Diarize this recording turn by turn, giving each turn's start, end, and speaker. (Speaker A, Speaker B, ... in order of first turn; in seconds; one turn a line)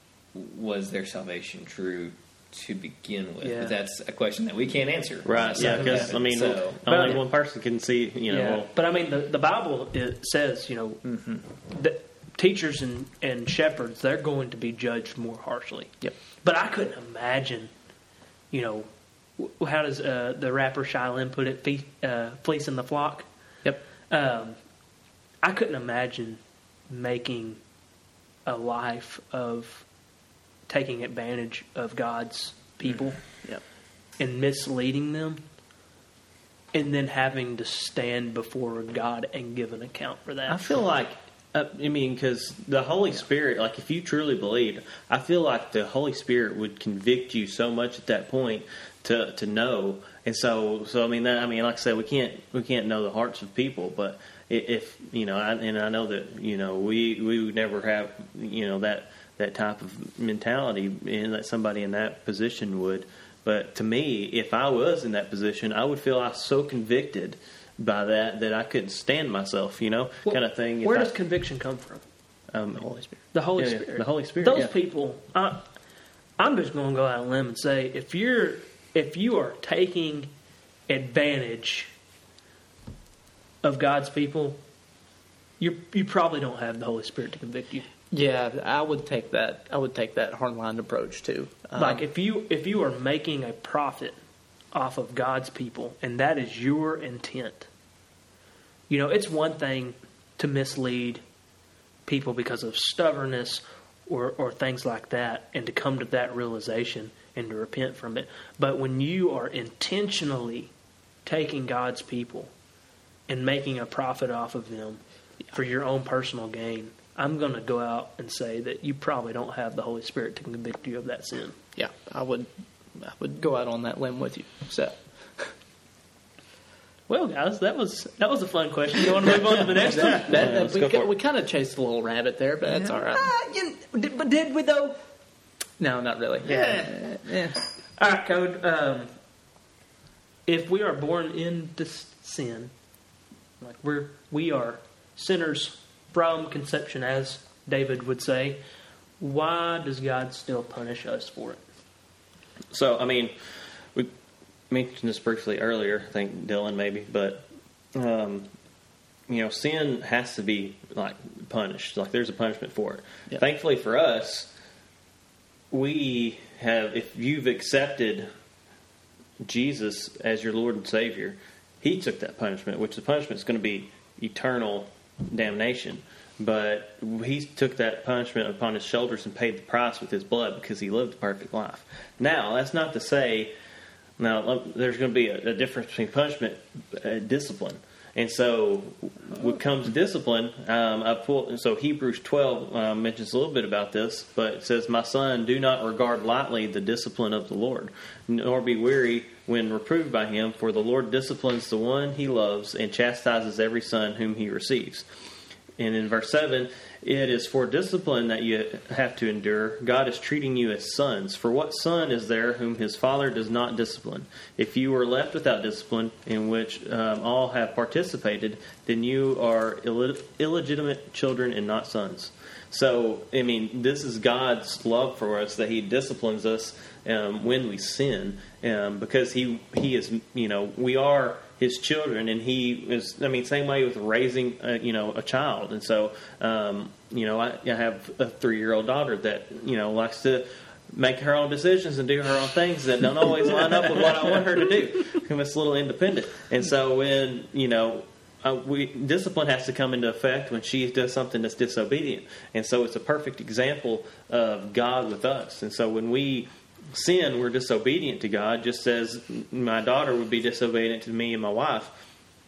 Speaker A: 0.3-6.8
Speaker B: 3.4-3.8
Speaker C: 5.2-8.7
Speaker B: 5.6-6.0
Speaker B: 6.9-7.2
Speaker B: 8.3-11.0
Speaker A: 11.0-11.4
Speaker B: 11.6-17.7
Speaker B: 18.5-23.3
Speaker B: 24.1-24.6
Speaker B: 25.4-27.6
Speaker B: 28.5-29.9
Speaker B: 30.7-33.2
Speaker B: 34.2-35.4
Speaker B: 36.7-40.8
Speaker C: 40.5-71.1
Speaker B: 70.3-72.0
Speaker C: 72.5-72.9
Speaker D: 72.8-73.2
Speaker B: 73.3-75.7
Speaker C: 73.6-74.7
Speaker B: 76.4-80.3
Speaker B: 80.9-81.9
Speaker B: 83.6-84.6
Speaker B: 85.6-87.9
Speaker D: 88.1-92.0
Speaker B: 91.8-94.2
Speaker B: 94.7-97.7
Speaker B: 98.9-101.2
Speaker B: 102.1-110.7
Speaker B: 111.2-112.5
Speaker B: 113.3-115.0
Speaker B: 115.5-121.6
Speaker D: 121.8-125.5
Speaker B: 127.1-130.4
Speaker D: 129.8-133.2
Speaker C: 130.3-131.1
Speaker B: 132.8-135.0
Speaker D: 135.8-137.6
Speaker B: 136.5-136.9
Speaker B: 138.0-139.1
Speaker B: 140.5-142.7
Speaker B: 143.6-148.6
Speaker B: 149.2-151.6
Speaker C: 152.7-153.3
Speaker C: 154.7-158.5
Speaker C: 159.3-164.5
Speaker C: 165.7-168.3
Speaker C: 169.4-183.5
Speaker C: 184.2-205.1
Speaker C: 205.8-262.0